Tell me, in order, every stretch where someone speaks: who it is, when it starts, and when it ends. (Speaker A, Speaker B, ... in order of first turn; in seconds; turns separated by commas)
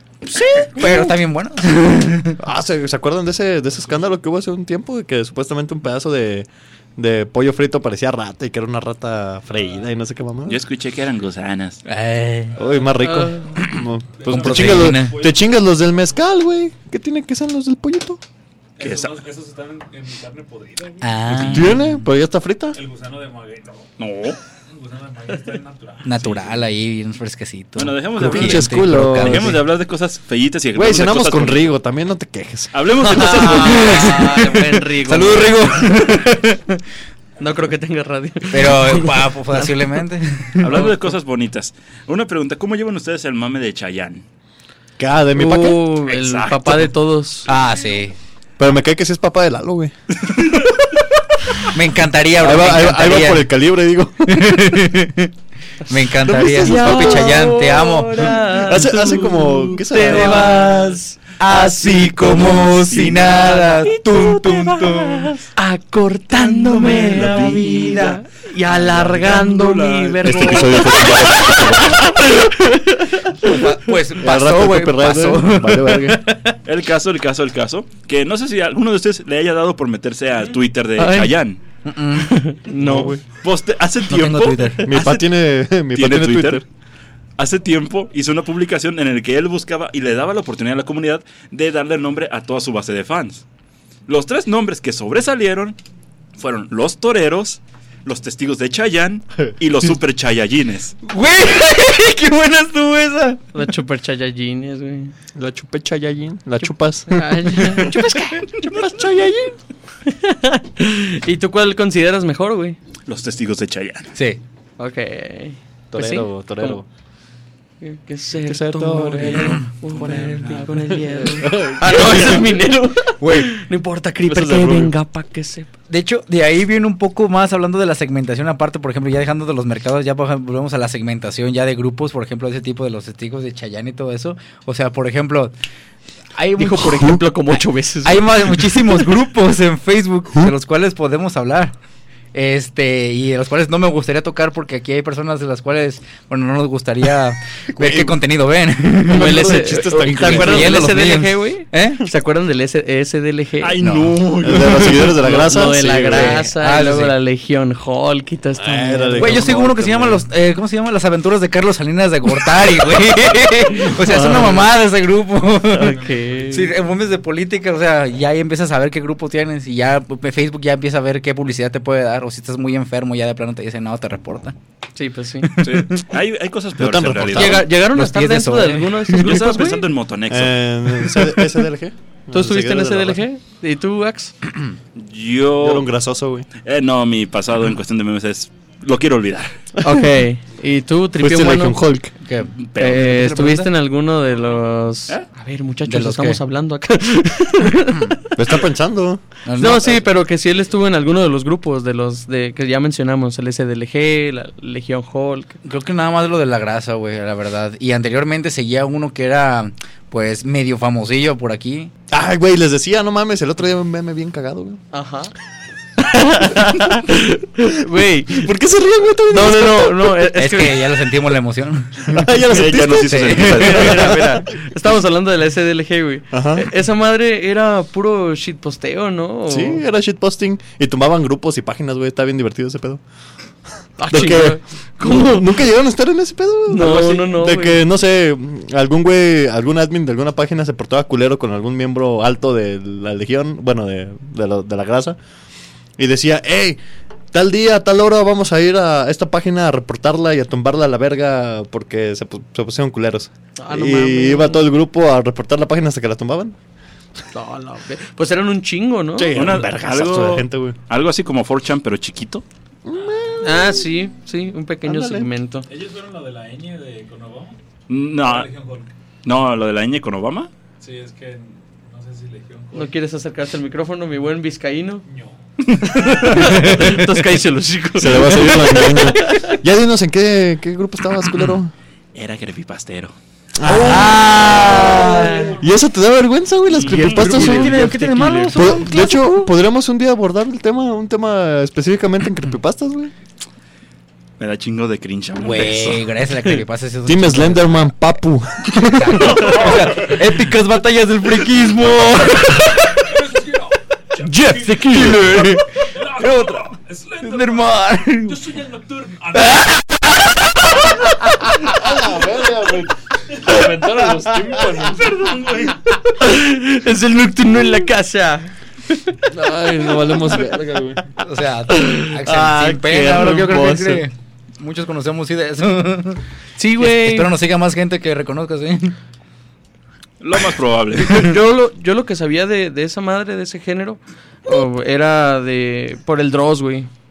Speaker A: 0.2-2.4, Speaker B: 2.4-10.6, Speaker C: 10.5-11.8, Speaker A: 11.8-12.6, Speaker D: 12.5-13.2, Speaker B: 12.6-18.2, Speaker E: 13.0-13.5, Speaker A: 13.5-15.2, Speaker D: 14.2-15.9, Speaker D: 18.8-21.2, Speaker C: 18.8-19.2, Speaker A: 21.0-22.0, Speaker C: 21.3-21.7, Speaker B: 21.5-22.8, Speaker D: 22.7-23.9, Speaker C: 24.0-24.4, Speaker D: 24.7-26.4, Speaker A: 26.0-29.6, Speaker C: 27.8-31.7, Speaker B: 28.2-29.6, Speaker B: 30.7-33.3, Speaker C: 32.7-34.5, Speaker E: 33.0-35.9, Speaker A: 33.6-34.2, Speaker A: 35.0-36.6, Speaker E: 37.4-39.8, Speaker A: 38.5-40.9, Speaker C: 40.6-44.2, Speaker B: 45.0-45.9, Speaker E: 45.3-47.5, Speaker C: 46.0-46.9, Speaker A: 47.5-48.1, Speaker B: 48.6-49.9, Speaker C: 50.3-50.6, Speaker A: 51.7-53.5, Speaker B: 52.4-54.6, Speaker A: 54.3-55.3, Speaker A: 55.9-58.4, Speaker E: 56.1-73.6, Speaker B: 56.3-57.3, Speaker B: 58.6-60.8, Speaker A: 60.1-60.5, Speaker A: 61.4-65.4, Speaker C: 62.9-63.3, Speaker A: 66.7-68.2, Speaker C: 66.7-68.2, Speaker B: 68.7-69.3, Speaker C: 68.9-71.0, Speaker B: 70.2-72.1, Speaker A: 73.4-76.6, Speaker B: 74.2-76.2, Speaker C: 76.6-81.6, Speaker E: 81.0-81.3, Speaker A: 81.8-82.3, Speaker E: 82.2-83.2, Speaker B: 82.8-83.2, Speaker C: 82.8-84.9, Speaker A: 84.1-85.1, Speaker B: 84.8-86.6, Speaker C: 85.9-86.6, Speaker C: 87.4-93.4, Speaker C: 94.1-95.8, Speaker C: 96.4-101.0, Speaker A: 101.1-103.4, Speaker E: 103.5-105.1, Speaker B: 105.3-109.6, Speaker E: 107.1-108.4, Speaker A: 107.7-108.5, Speaker E: 110.0-112.8, Speaker C: 113.1-114.1, Speaker A: 114.1-114.4, Speaker E: 114.8-116.8, Speaker B: 115.9-116.8, Speaker E: 117.8-125.7, Speaker B: 118.4-120.3, Speaker A: 119.4-120.5, Speaker B: 120.9-122.6, Speaker A: 123.2-123.5, Speaker B: 124.2-124.9, Speaker A: 125.9-135.5, Speaker A: 136.3-141.7, Speaker E: 136.6-138.8, Speaker A: 142.3-152.0, Speaker B: 147.7-148.2, Speaker B: 149.1-151.0, Speaker E: 149.1-153.8, Speaker C: 153.6-155.1, Speaker A: 153.8-154.2, Speaker B: 154.4-156.4, Speaker E: 154.8-159.6, Speaker A: 156.0-157.1, Speaker B: 158.6-160.2, Speaker A: 159.1-174.6, Speaker E: 163.9-164.7, Speaker E: 165.7-166.7, Speaker D: 165.8-166.7, Speaker E: 174.9-175.9, Speaker C: 175.6-177.7, Speaker B: 176.8-177.7, Speaker E: 177.3-179.9, Speaker A: 177.4-179.1, Speaker C: 179.2-180.6, Speaker B: 180.3-183.2, Speaker E: 182.3-184.3, Speaker C: 184.9-185.9, Speaker B: 185.6-186.5, Speaker C: 186.6-189.8, Speaker E: 189.8-191.8, Speaker B: 191.2-192.1, Speaker A: 192.2-193.7, Speaker C: 192.6-193.4, Speaker E: 192.8-198.2, Speaker A: 195.8-196.4, Speaker B: 198.3-199.2, Speaker A: 199.4-200.0, Speaker E: 199.6-205.6, Speaker A: 205.6-211.9, Speaker B: 212.1-214.8, Speaker E: 214.9-215.3, Speaker E: 216.1-218.5, Speaker B: 216.5-216.9, Speaker B: 218.3-220.2, Speaker E: 219.3-221.1, Speaker A: 220.3-222.4, Speaker B: 222.1-224.4, Speaker C: 222.5-224.3, Speaker A: 223.0-223.8, Speaker E: 223.5-229.8, Speaker B: 226.3-226.7, Speaker B: 229.5-233.0, Speaker E: 234.0-235.6, Speaker B: 234.1-245.2, Speaker E: 236.7-237.8, Speaker B: 246.0-246.8, Speaker B: 247.3-256.6, Speaker E: 253.6-254.7, Speaker E: 257.3-259.3, Speaker B: 259.1-260.8, Speaker C: 259.3-262.4, Speaker B: 262.9-263.9, Speaker E: 263.4-265.7, Speaker B: 264.8-265.3, Speaker D: 265.7-267.6, Speaker C: 267.9-268.5, Speaker D: 268.1-268.9, Speaker C: 269.2-270.5, Speaker D: 270.8-272.9, Speaker E: 272.7-275.0, Speaker D: 275.0-276.4, Speaker E: 275.9-279.6, Speaker A: 276.4-277.1, Speaker B: 277.9-281.7, Speaker C: 282.1-283.1, Speaker B: 283.6-287.8, Speaker A: 283.6-285.5, Speaker E: 283.8-285.5, Speaker D: 284.9-285.6, Speaker C: 286.7-287.3, Speaker E: 286.9-288.6, Speaker A: 287.0-289.5, Speaker B: 288.5-293.1, Speaker C: 294.4-296.0, Speaker A: 295.4-298.0, Speaker B: 297.1-299.7, Speaker A: 298.8-303.1, Speaker D: 303.0-305.2, Speaker B: 304.3-305.6, Speaker A: 304.4-306.6, Speaker D: 305.8-309.8, Speaker A: 307.2-308.4, Speaker A: 309.5-311.5, Speaker B: 311.7-315.3, Speaker D: 311.7-315.8, Speaker E: 316.2-319.1, Speaker B: 319.3-321.0, Speaker E: 319.9-320.4, Speaker A: 321.2-326.2, Speaker E: 321.7-322.2, Speaker B: 322.2-324.0, Speaker E: 326.6-327.3, Speaker A: 326.8-328.9, Speaker C: 330.2-331.3, Speaker E: 331.0-336.9